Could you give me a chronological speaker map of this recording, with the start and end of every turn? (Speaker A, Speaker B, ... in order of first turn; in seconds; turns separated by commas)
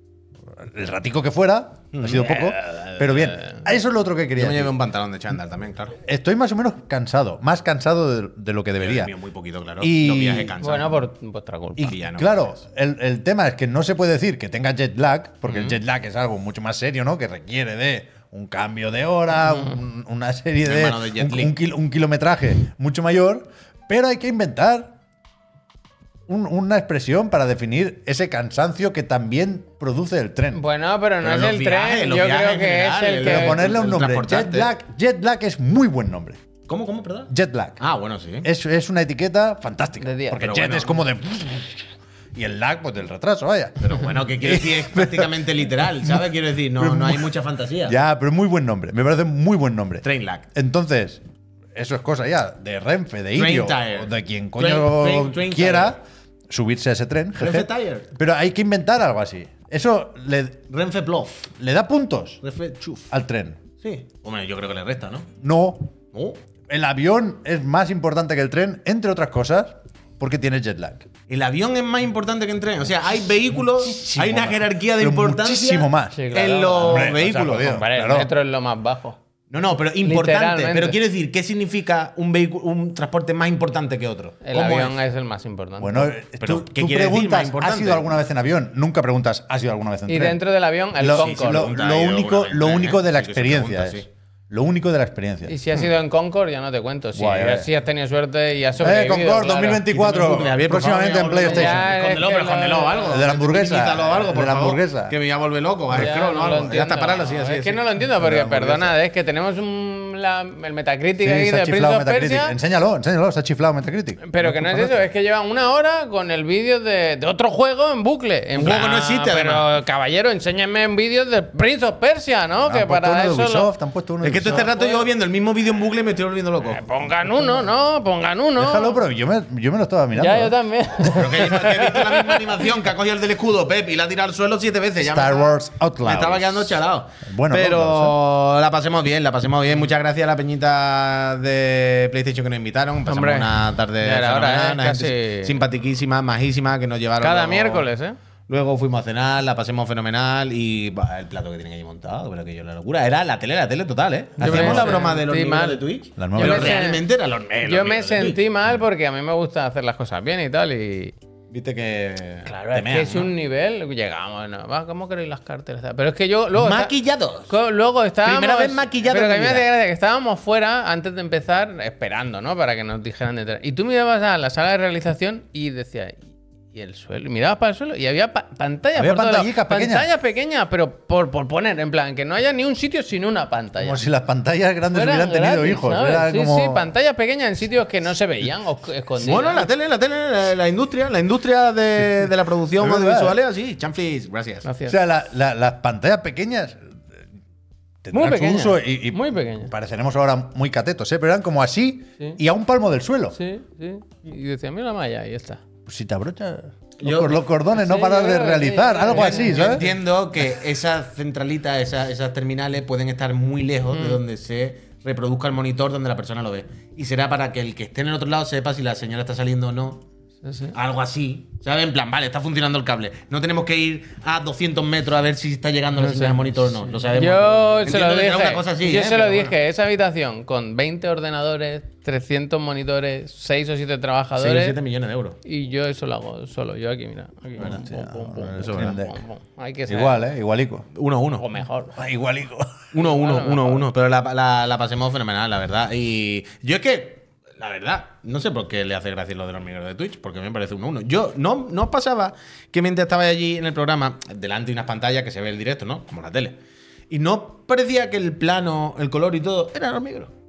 Speaker A: 0.6-4.7, Speaker B: 1.9-3.0, Speaker B: 4.4-6.0, Speaker A: 6.0-9.1, Speaker B: 8.8-11.1, Speaker A: 9.8-10.6, Speaker C: 10.6-11.9, Speaker A: 11.8-24.9, Speaker B: 11.8-12.6, Speaker B: 15.4-15.8, Speaker B: 20.6-21.6, Speaker A: 26.3-30.6, Speaker C: 30.5-33.7, Speaker B: 31.2-34.7, Speaker A: 33.2-36.4, Speaker B: 36.7-38.5, Speaker A: 37.3-37.8, Speaker A: 38.4-47.3, Speaker C: 40.0-40.5, Speaker B: 40.3-41.0, Speaker B: 43.8-48.0, Speaker A: 47.9-51.2, Speaker B: 50.0-50.5, Speaker A: 51.7-60.7, Speaker B: 53.3-56.0, Speaker B: 57.4-58.1, Speaker B: 60.7-61.5, Speaker A: 61.6-62.4, Speaker B: 62.4-63.1, Speaker A: 63.1-63.6, Speaker B: 63.8-65.3, Speaker A: 65.4-65.9, Speaker B: 66.1-66.4, Speaker A: 66.7-71.1, Speaker B: 71.3-77.8, Speaker A: 73.8-76.2, Speaker C: 76.1-79.2, Speaker A: 76.8-78.3, Speaker B: 79.5-85.0, Speaker C: 80.0-81.0, Speaker C: 84.4-86.1, Speaker A: 85.8-90.4, Speaker B: 86.4-88.1, Speaker C: 90.1-91.7, Speaker A: 91.0-95.5, Speaker B: 91.1-94.1, Speaker C: 95.5-99.8, Speaker A: 97.1-97.7, Speaker A: 98.8-102.0, Speaker B: 99.9-107.8, Speaker C: 101.4-103.2, Speaker A: 103.1-105.1, Speaker C: 106.0-112.6, Speaker A: 108.1-109.0, Speaker A: 111.2-115.0, Speaker C: 114.3-123.7, Speaker B: 118.6-119.7, Speaker A: 122.6-124.7, Speaker B: 124.2-126.8, Speaker C: 124.4-125.1, Speaker C: 126.7-129.0, Speaker A: 128.6-130.6, Speaker C: 130.2-132.6, Speaker B: 131.1-147.9, Speaker A: 135.0-138.2, Speaker C: 143.1-145.6, Speaker C: 147.2-148.2, Speaker B: 148.5-158.4, Speaker C: 154.4-157.1, Speaker A: 154.4-155.0, Speaker A: 156.2-156.9, Speaker C: 157.6-161.1, Speaker B: 161.5-163.3, Speaker C: 162.5-167.0, Speaker B: 166.6-167.6, Speaker C: 167.5-176.2, Speaker B: 168.2-169.7, Speaker C: 176.7-184.0, Speaker A: 178.9-180.1, Speaker A: 183.8-186.9, Speaker C: 184.9-189.7, Speaker B: 189.2-194.7, Speaker A: 192.8-193.4, Speaker C: 194.7-195.0, Speaker A: 194.9-196.9, Speaker A: 198.0-203.4, Speaker C: 198.1-199.7, Speaker C: 203.3-205.6, Speaker A: 205.9-209.9, Speaker B: 207.0-207.5, Speaker C: 207.7-209.9, Speaker B: 209.1-220.0, Speaker C: 213.9-214.2, Speaker C: 220.4-220.8, Speaker B: 220.7-229.6, Speaker C: 226.0-234.8, Speaker B: 234.4-235.4, Speaker C: 235.4-240.2, Speaker A: 237.6-239.2, Speaker B: 238.6-239.0, Speaker A: 239.9-240.9, Speaker B: 240.9-241.5, Speaker C: 241.4-242.0, Speaker A: 242.0-242.9, Speaker B: 242.9-256.6, Speaker C: 243.0-243.9, Speaker B: 257.1-260.3